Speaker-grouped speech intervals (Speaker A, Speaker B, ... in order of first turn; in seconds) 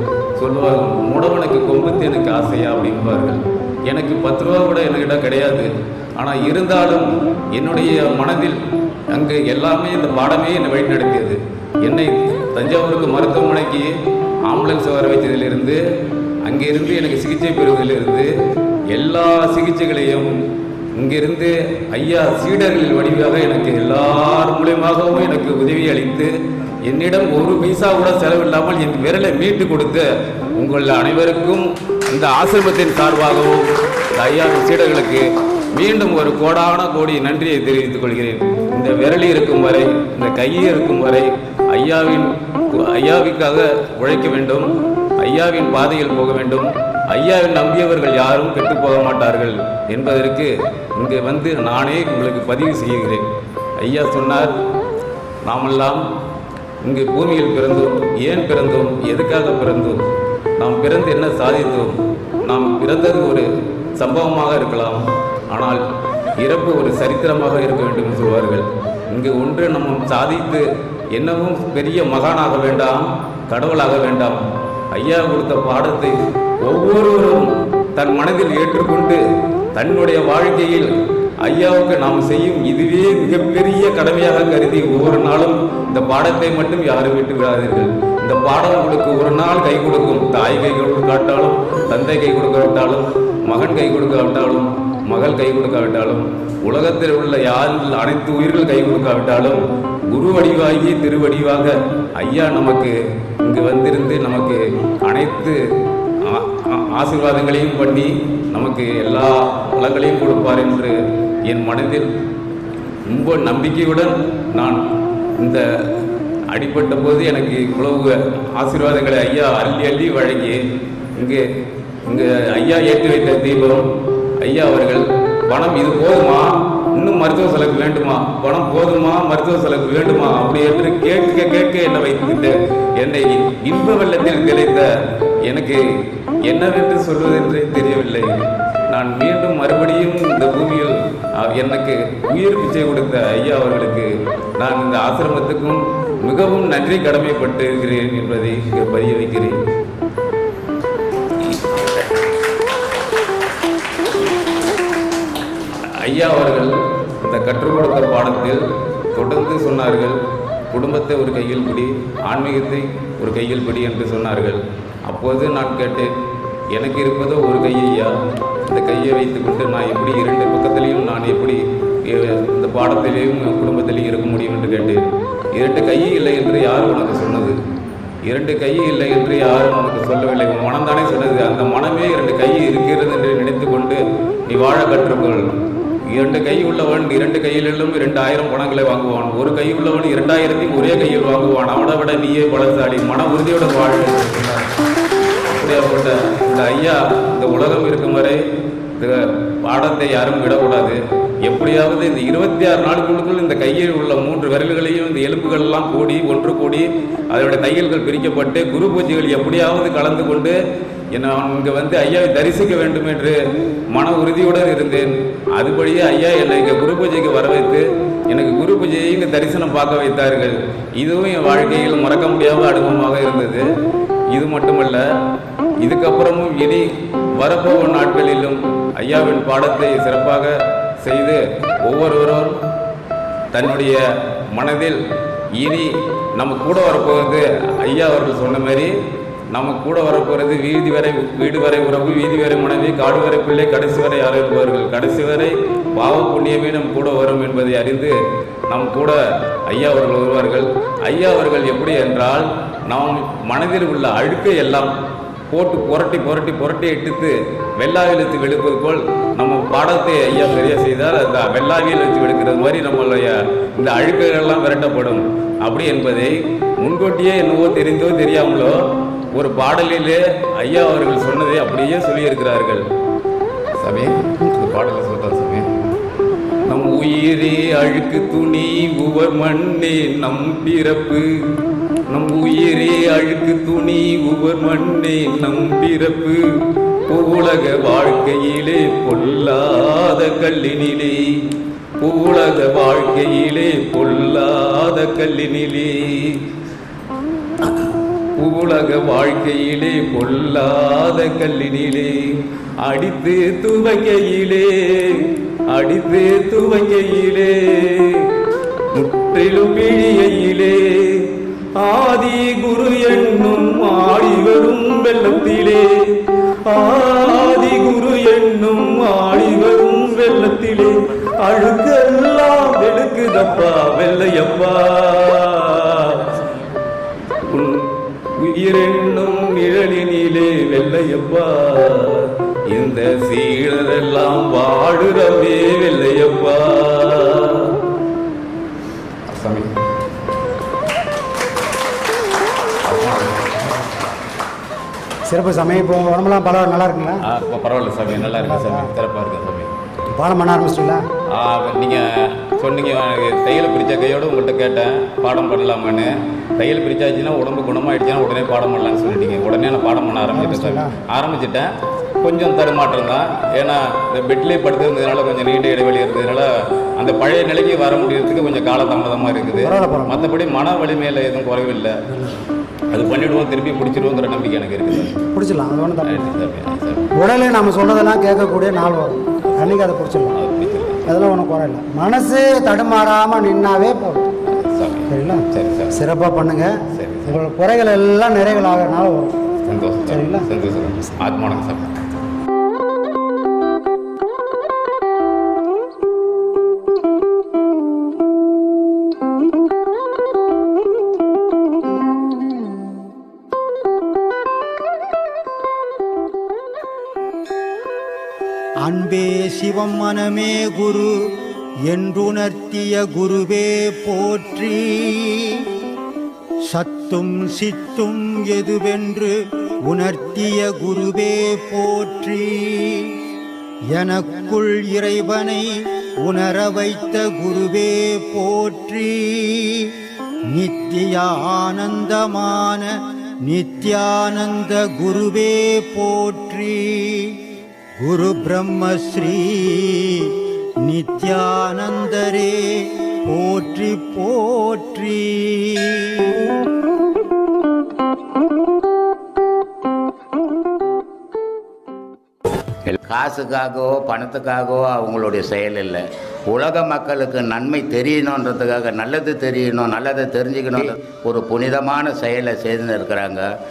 Speaker A: 0.3-8.6, 9.1-13.9, 14.5-15.8, 16.4-18.3, 18.9-20.3, 21.0-26.3, 26.8-53.3, 53.8-54.5, 55.4-56.0, 56.8-65.8, 66.4-74.4, 74.9-79.2, 79.7-105.6, 106.2-112.2, 113.1-114.8, 115.4-115.6, 116.5-120.6, 121.2-121.4, 122.0-134.9, 135.4-135.8, 136.4-149.6, 156.0-160.2, 160.7-166.1, 166.7-168.2, 168.7-177.6, 178.2-185.5, 186.1-194.7, 195.5-198.4, 199.0-210.6, 211.1-213.4, 213.9-223.7, 224.3-225.0, 225.8-232.6, 233.5-234.0, 234.5-235.0, 235.6-238.9, 239.5-248.1, 248.7-254.9, 255.5-268.8, 269.3-272.8, 273.8-275.7, 276.6-281.3, 282.1-286.5, 287.1-291.5, 292.0-296.4, 297.6-308.3, 308.9-326.4, 327.4-337.7, 339.3-339.8, 342.8-343.7, 347.2-349.7, 351.3-372.0, 372.9-375.2, 376.0-377.1, 379.5-379.7, 380.3-381.1, 384.4-386.0, 386.9-387.4, 389.6-392.0
Speaker B: 345.3-347.2, 348.3-348.9, 350.1-351.0, 360.3-360.9, 369.6-370.2, 372.1-372.4, 375.3-376.2, 377.1-380.3, 381.1-384.2, 385.1-386.7, 387.3-389.3, 390.1-390.5
Speaker C: 408.8-411.1, 411.9-415.7, 416.7-419.3, 419.9-423.1, 423.9-425.6, 426.2-429.9, 430.5-432.9, 433.4-437.4, 438.0-440.3, 440.8-446.3
Speaker D: 452.9-463.4